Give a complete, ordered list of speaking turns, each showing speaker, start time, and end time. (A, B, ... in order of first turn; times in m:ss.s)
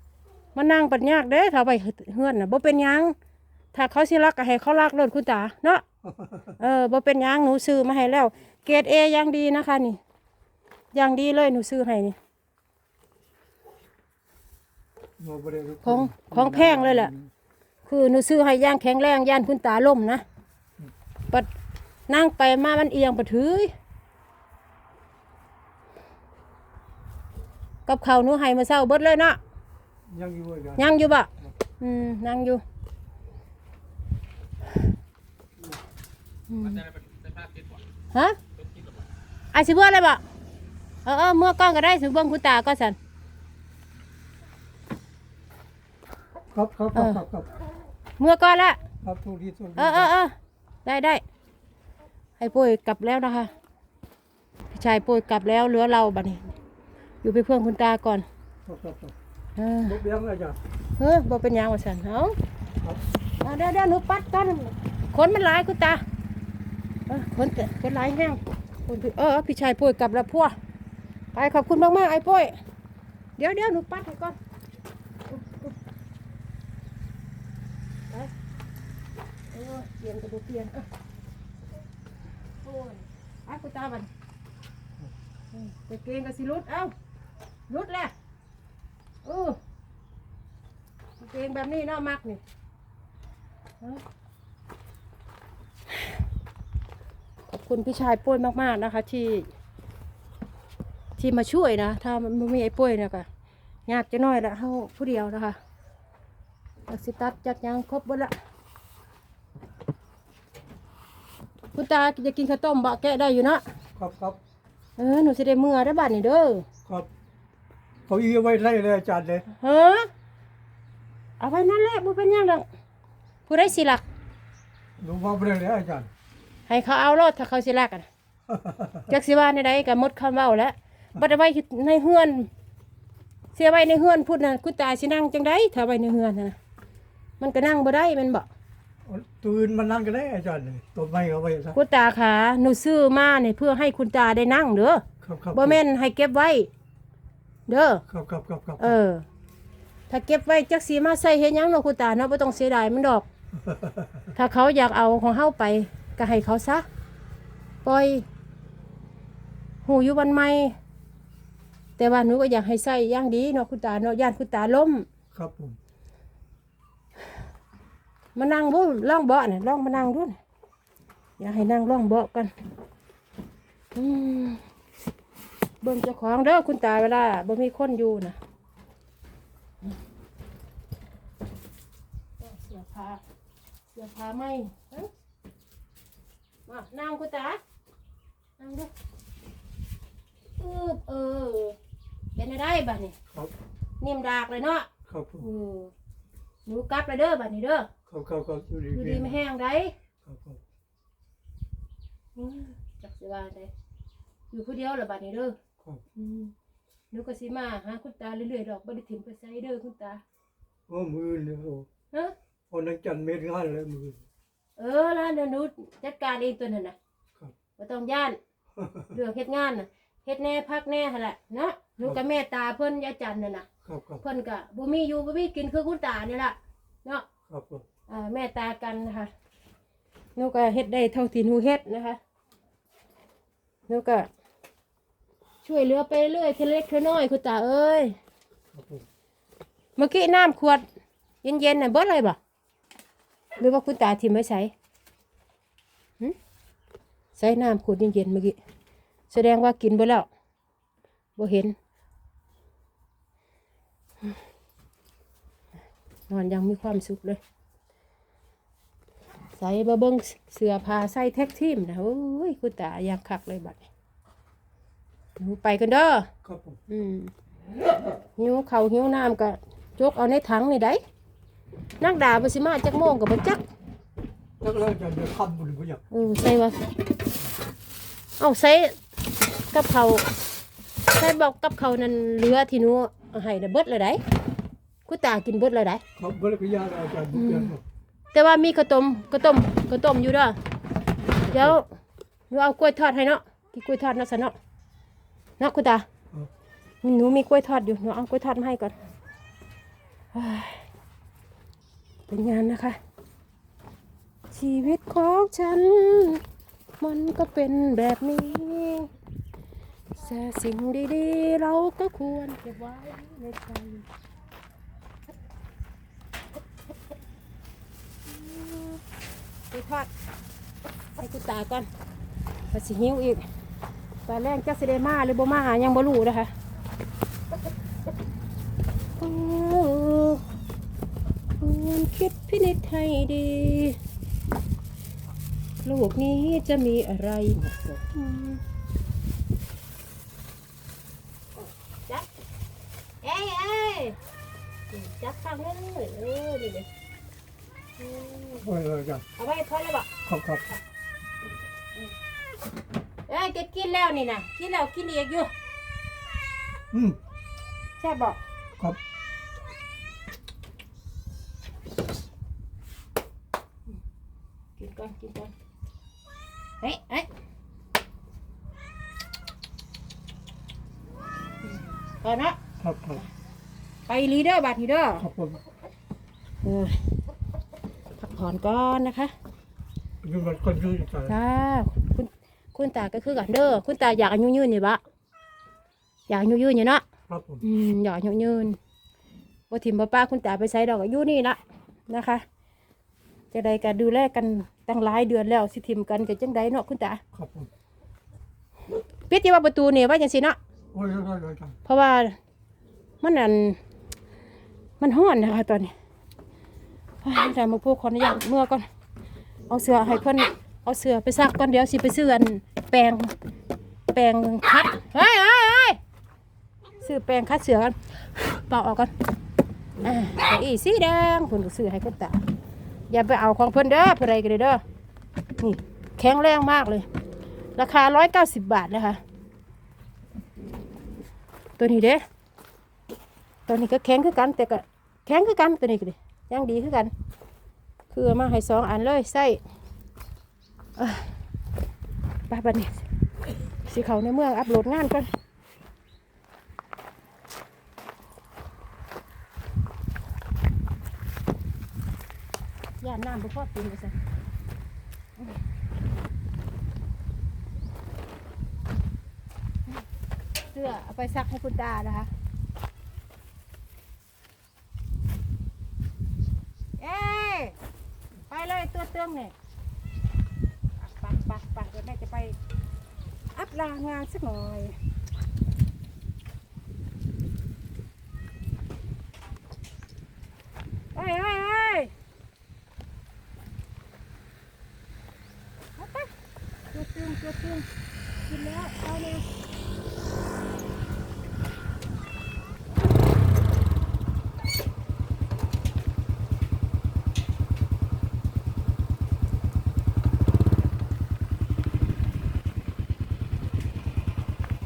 0:00.5-0:03.2 A
0:03.7-0:05.8 A
0:06.0-0:06.5 B
0:06.6-0:10.0 A
0:10.9-0:12.2 A
0:15.2-0:17.3 B
0:15.8-0:17.1 A
0:17.8-0:20.2 A
0:22.1-0:23.7 A
0:27.8-0:29.4 A
0:30.1-0:31.5 B
0:30.8-0:31.3 A
0:31.8-0:32.6 A
0:36.5-0:36.8 A
0:39.5-0:40.2 A
0:41.0-0:43.0 A
0:46.5-0:47.5 B
0:46.9-0:47.2 A
0:48.2-0:48.8 A
0:49.0-0:50.1 B
0:49.8-0:51.2 A
0:52.4-0:53.5 A
0:54.7-0:56.5 A
0:57.2-0:58.2 A
0:58.6-0:59.1 B
0:59.6-1:00.0 A
0:59.8-1:00.6 B
1:01.0-1:02.4 A
1:03.4-1:06.0 A
1:07.1-1:10.6 A
1:11.3-1:12.6 A
1:13.4-1:14.4 A
1:15.3-1:15.8 A
1:19.5-1:20.8 A
1:22.6-1:24.1 A
1:25.5-1:26.9 A
1:27.7-1:28.1 A
1:29.2-1:29.6 A
1:31.2-1:32.4 A
1:37.5-1:39.5 A
1:41.2-1:43.3 A
1:43.9-1:45.6 A
1:46.9-1:48.3 A
1:51.7-1:53.6 A
1:54.0-1:54.4 B
1:55.0-1:56.6 A
1:58.1-1:59.4 B
1:59.5-2:00.1 A
2:01.4-2:02.6 A
2:03.5-2:04.0 A
2:05.0-2:06.1 B
2:06.7-2:08.1 A
2:08.5-2:09.1 B
2:09.1-2:12.5 A
2:13.5-2:16.6 A
2:17.4-2:18.5 A
2:19.0-2:21.8 B
2:21.7-2:26.7 A
2:25.2-2:25.8 B
2:27.7-2:28.0 A
2:28.1-2:29.0 B
2:28.8-2:29.2 A
2:30.1-2:33.2 A
2:33.6-2:34.0 B
2:34.3-2:36.8 A
2:37.8-2:38.2 A
2:39.8-2:40.8 A
2:42.0-2:45.1 A
2:45.3-2:45.8 B
2:48.3-2:50.4 A
2:51.4-2:52.5 A
2:53.9-2:54.6 A
2:55.8-2:58.4 A
3:02.4-3:03.2 A
3:03.9-3:05.1 A
3:06.6-3:07.6 A
3:08.6-3:08.9 A
3:10.6-3:11.8 A
3:12.4-3:13.1 A
3:14.0-3:14.9 A
3:15.1-3:15.5 B
3:15.4-3:15.9 A
3:16.6-3:17.9 A
3:18.1-3:19.4 B
3:18.9-3:19.9 A
3:20.2-3:20.6 B
3:22.4-3:23.7 A
3:24.5-3:25.5 A
3:26.2-3:26.5 A
3:27.1-3:30.2 A
3:30.9-3:31.9 B
3:32.7-3:34.2 B
3:34.8-3:37.0 A
3:37.8-3:38.4 A
3:38.8-3:39.1 B
3:39.1-3:43.6 A
3:43.8-3:44.2 B
3:44.2-3:47.2 A
3:47.5-3:47.8 B
3:48.1-3:49.3 A
3:50.4-3:52.2 A
3:53.9-3:54.3 A
3:55.6-3:58.2 A
3:58.7-3:59.0 B
4:00.0-4:00.8 A
4:01.4-4:02.4 A
4:03.6-4:04.7 A
4:07.4-4:08.6 A
4:09.3-4:10.3 A
4:11.4-4:11.7 A
4:16.3-4:17.4 A
4:19.5-4:23.9 A
4:25.4-4:26.3 A
4:26.4-4:26.8 B
4:26.9-4:27.3 A
4:28.4-4:31.0 A
4:32.0-4:33.6 A
4:34.6-4:36.0 B
4:36.1-4:36.8 A
4:38.4-4:39.0 A
4:39.7-4:40.3 A
4:41.1-4:44.2 A
4:45.0-4:46.0 A
4:46.2-4:47.8 B
4:47.3-4:47.7 A
4:48.3-4:50.6 A
4:51.5-4:51.7 B
4:51.5-4:51.9 A
4:52.5-4:54.6 A
4:55.6-4:56.1 A
4:57.0-4:58.9 A
5:00.3-5:00.9 A
5:02.3-5:03.0 A
5:04.5-5:06.4 A
5:07.0-5:09.1 A
5:10.2-5:14.0 A
5:18.3-5:19.0 A
5:19.7-5:20.1 A
5:21.2-5:21.9 A
5:22.7-5:23.4 A
5:24.2-5:26.5 A
5:29.2-5:30.4 A
5:31.6-5:34.0 A
5:35.8-5:38.6 A
5:37.6-5:38.0 B
5:41.6-5:42.3 A
5:43.2-5:44.2 A
5:44.9-5:46.9 A
5:48.0-5:48.7 A
5:48.6-5:49.2 B
5:49.4-5:50.1 A
5:50.2-5:50.6 B
5:53.3-5:55.5 A
5:56.9-5:57.2 B
5:58.0-5:58.4 A
6:04.8-6:05.5 A
6:06.8-6:07.3 A
6:11.6-6:12.6 A
6:12.8-6:13.2 B
6:14.1-6:15.3 A
6:15.2-6:15.6 B
6:16.6-6:17.2 A
6:18.2-6:19.3 A
6:20.2-6:21.3 B
6:21.3-6:25.0 A
6:26.3-6:27.0 A
6:27.3-6:27.6 B
6:27.6-6:28.8 A
6:29.7-6:32.4 A
6:33.5-6:37.2 A
6:37.3-6:37.7 B
6:39.3-6:40.6 A
6:40.9-6:41.8 B
6:41.8-6:42.4 A
6:43.2-6:43.8 A
6:45.0-6:45.9 A
6:47.2-6:48.8 A
6:49.7-6:53.3 A
6:54.1-6:56.0 A
6:57.0-6:59.1 A
7:00.0-7:02.4 A
7:03.1-7:04.8 A
7:05.6-7:07.0 A
7:07.8-7:09.2 A
7:11.8-7:12.2 A
7:13.7-7:17.1 A
7:18.1-7:19.6 A
7:21.0-7:21.3 A
7:22.5-7:23.0 A
7:23.7-7:25.3 A
7:33.0-7:34.2 A
7:40.7-7:42.3 A
7:47.0-7:47.8 A
7:48.5-7:49.5 A
7:51.0-7:52.6 A
7:53.5-7:55.0 A
8:01.1-8:02.1 A
8:06.0-8:06.3 A
8:06.9-8:07.9 A
8:08.4-8:09.4 A